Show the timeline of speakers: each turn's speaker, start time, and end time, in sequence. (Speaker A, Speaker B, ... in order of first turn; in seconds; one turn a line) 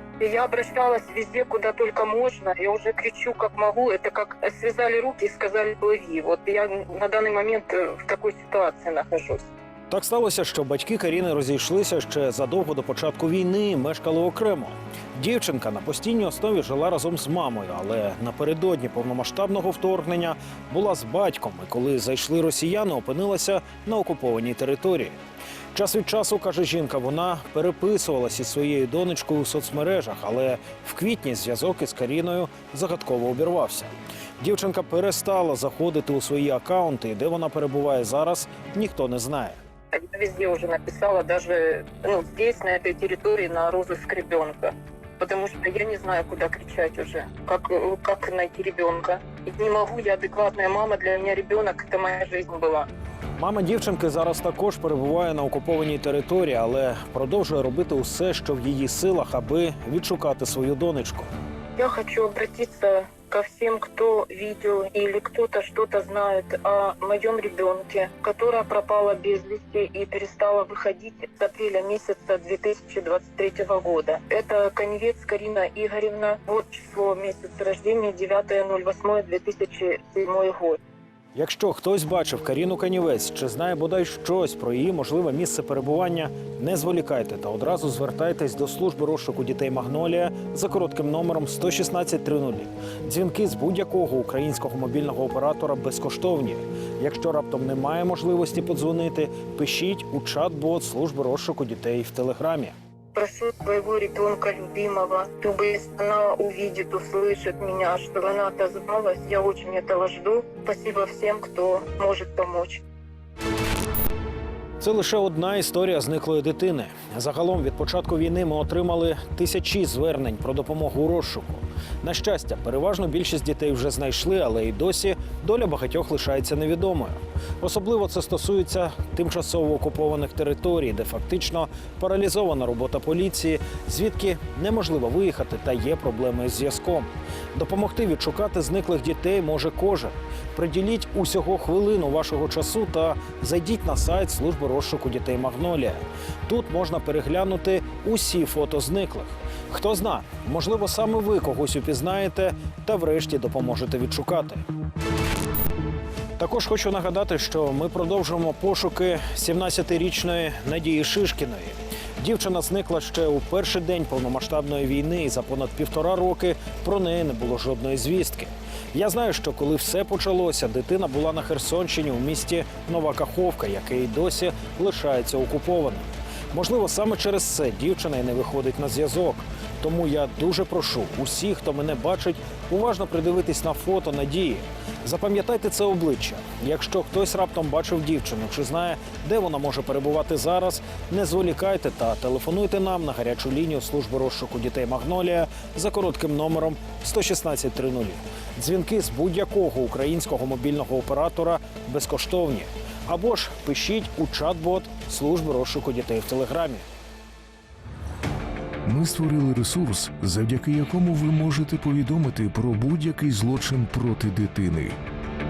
Speaker A: 0.2-9.5
Speaker B: 9.9-25.1
Speaker B: 25.7-39.6
Speaker A: 39.9-52.9
Speaker B: 53.4-61.3
Speaker A: 61.8-80.8
Speaker B: 81.3-102.7
Speaker A: 103.2-112.8
Speaker B: 114.8-154.6
Speaker B: 156.4-206.8
Speaker C: 208.9-215.0